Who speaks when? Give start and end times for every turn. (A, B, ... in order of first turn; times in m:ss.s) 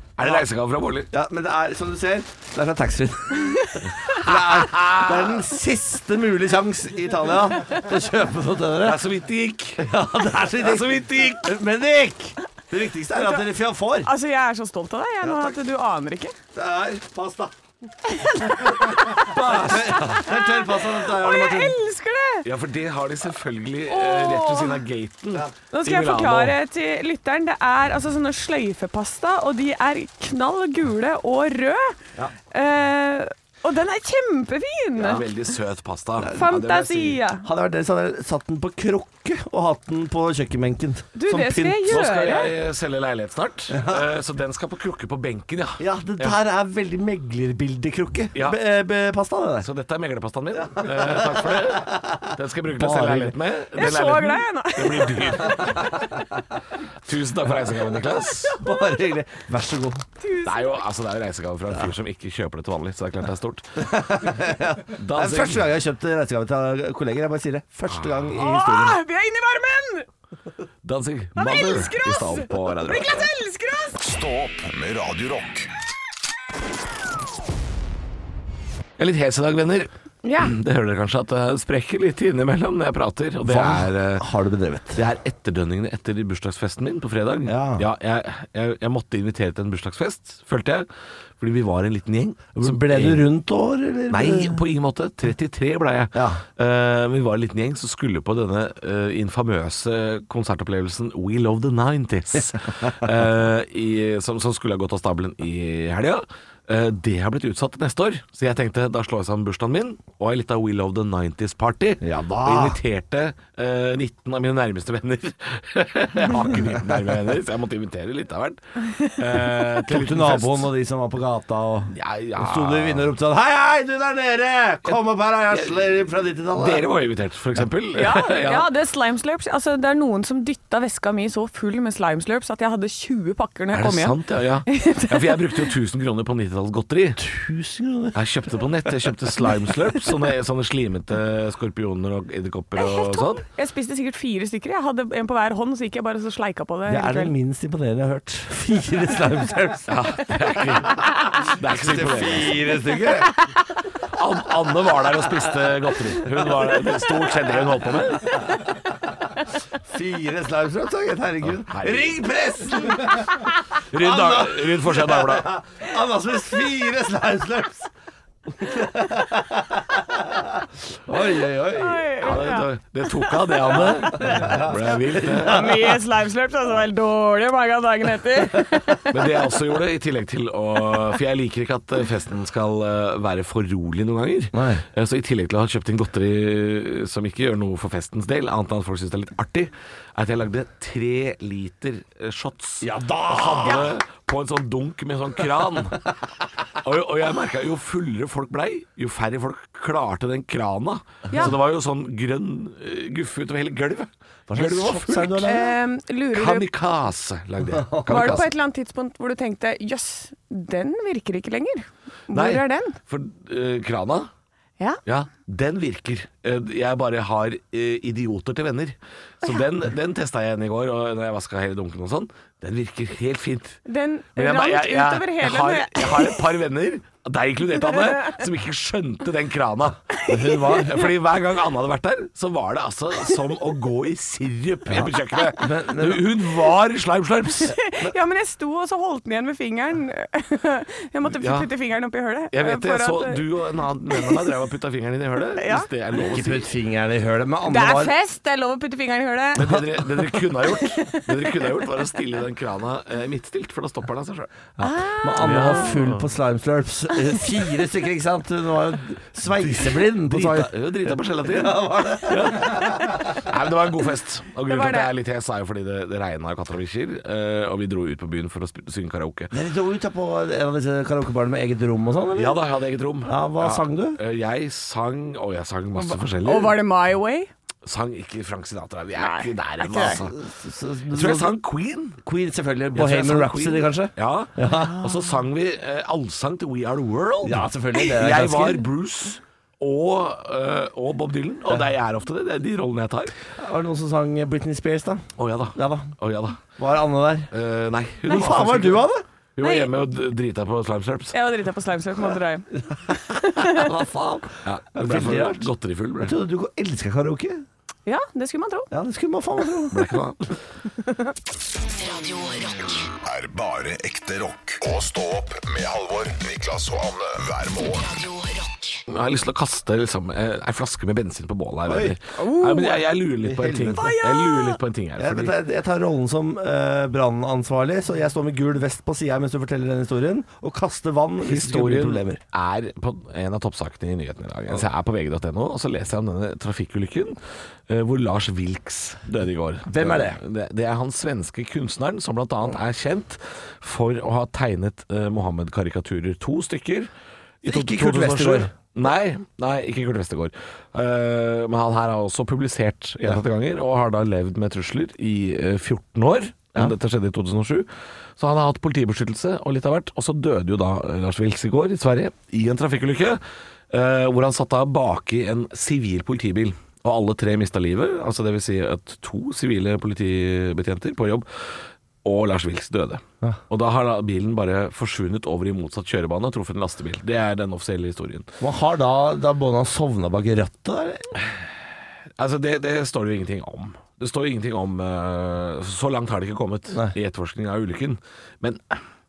0:00.2-0:01.1 A
0:01.1-0:09.1 B
0:04.3-0:05.4 A
0:08.8-0:09.9 A
0:09.8-0:14.1 B
0:10.6-0:11.5 A
0:13.2-0:13.4 C
0:14.0-0:16.3 C
0:15.2-0:15.5 B
0:16.5-0:17.5 B
0:18.1-0:19.3 C
0:18.5-0:21.8 B
0:19.2-0:20.0 A
0:20.0-0:22.4 C
0:22.4-0:26.6 A
0:23.9-0:24.8 C
0:25.7-0:31.9 C
0:32.5-0:35.3 C
0:35.0-0:37.2 A
0:36.3-0:37.4 C
0:37.4-0:42.1 B
0:41.2-0:42.5 C
0:41.9-0:46.4 A
0:43.7-0:44.0 B
0:45.8-0:49.7 B
0:49.6-0:56.0 A
0:50.6-0:53.4 B
0:53.7-0:55.7 C
0:57.0-0:58.5 A
0:58.4-0:59.0 C
0:58.6-1:00.0 B
1:00.2-1:00.8 C
1:00.4-1:03.9 A
1:03.8-1:09.0 B
1:05.0-1:05.6 A
1:08.4-1:10.1 C
1:10.8-1:13.3 A
1:11.4-1:14.0 C
1:14.0-1:15.7 D
1:19.0-1:24.3 A
1:20.2-1:20.5 C
1:23.4-1:25.0 B
1:24.9-1:30.9 A
1:27.5-1:27.8 B
1:31.4-1:33.2 A
1:32.6-1:34.6 B
1:34.1-2:00.7 A
1:36.1-1:36.4 B
1:52.0-1:52.8 B
1:59.9-2:06.8 B
2:01.9-2:03.1 A
2:06.5-2:08.7 A
2:07.9-2:14.2 C
2:13.7-2:17.2 A
2:14.7-2:15.7 C
2:17.2-2:18.2 B
2:18.1-2:23.4 A
2:18.8-2:19.1 B
2:22.8-2:27.3 C
2:26.8-2:30.2 B
2:29.9-2:32.6 A
2:30.9-2:33.3 B
2:34.1-2:38.4 A
2:35.0-2:35.5 B
2:36.2-2:36.5 B
2:39.8-2:47.9 B
2:41.4-2:42.2 A
2:43.9-2:45.5 A
2:48.6-2:52.1 B
2:51.8-2:54.5 C
2:52.2-2:55.6 A
2:54.2-2:55.8 B
2:55.3-2:59.2 C
2:59.1-3:16.0 A
3:04.5-3:04.8 B
3:12.8-3:13.9 B
3:16.8-3:25.6 A
3:24.5-3:25.7 B
3:25.4-3:26.7 C
3:26.3-3:28.5 A
3:27.6-3:28.4 B
3:28.1-3:33.0 C
3:32.3-3:34.3 A
3:35.0-3:43.8 A
3:43.8-3:46.4 C
3:44.4-3:57.8 A
3:48.1-3:48.4 C
3:50.2-3:50.8 C
3:50.3-3:51.0 B
3:54.9-3:56.4 B
3:57.6-4:03.4 C
4:01.3-4:01.7 A
4:02.5-4:06.7 A
4:04.1-4:04.4 C
4:05.6-4:05.9 C
4:06.2-4:08.1 B
4:07.6-4:09.8 C
4:09.6-4:14.5 A
4:09.6-4:10.0 B
4:10.7-4:11.6 C
4:14.8-4:20.7 B
4:14.8-4:15.9 C
4:15.4-4:16.3 A
4:19.6-4:29.5 A
4:21.4-4:23.2 B
4:24.7-4:25.1 C
4:29.5-4:32.6 B
4:32.3-4:36.8 A
4:33.2-4:34.2 B
4:36.0-4:37.5 C
4:37.8-4:40.4 A
4:39.2-4:40.2 C
4:40.0-4:41.6 B
4:41.1-4:42.2 A
4:42.2-4:45.0 B
4:42.9-4:53.4 A
4:47.4-4:48.9 B
4:53.6-4:56.2 B
4:55.4-4:56.7 A
4:56.7-4:57.5 B
4:57.5-5:01.3 A
4:58.2-4:59.2 B
4:59.6-4:59.9 C
5:01.3-5:03.9 C
5:03.6-5:05.7 B
5:04.6-5:06.4 A
5:06.2-5:07.6 B
5:08.0-5:08.9 C
5:08.9-5:10.0 B
5:09.9-5:10.5 A
5:11.0-5:11.3 C
5:11.9-5:13.1 E
5:13.2-5:18.1 D
5:18.0-5:19.0 E
5:19.1-5:25.5 A
5:21.8-5:22.2 B
5:22.3-5:23.0 C
5:23.4-5:24.1 B
5:24.0-5:24.8 C
5:25.2-5:32.4 B
5:31.4-5:37.4 A
5:37.9-5:47.1 A
5:39.9-5:40.4 B
5:47.6-6:03.4 A
5:47.6-5:48.7 B
6:03.9-6:18.5 A
6:18.6-6:21.4 B
6:22.4-6:29.0 A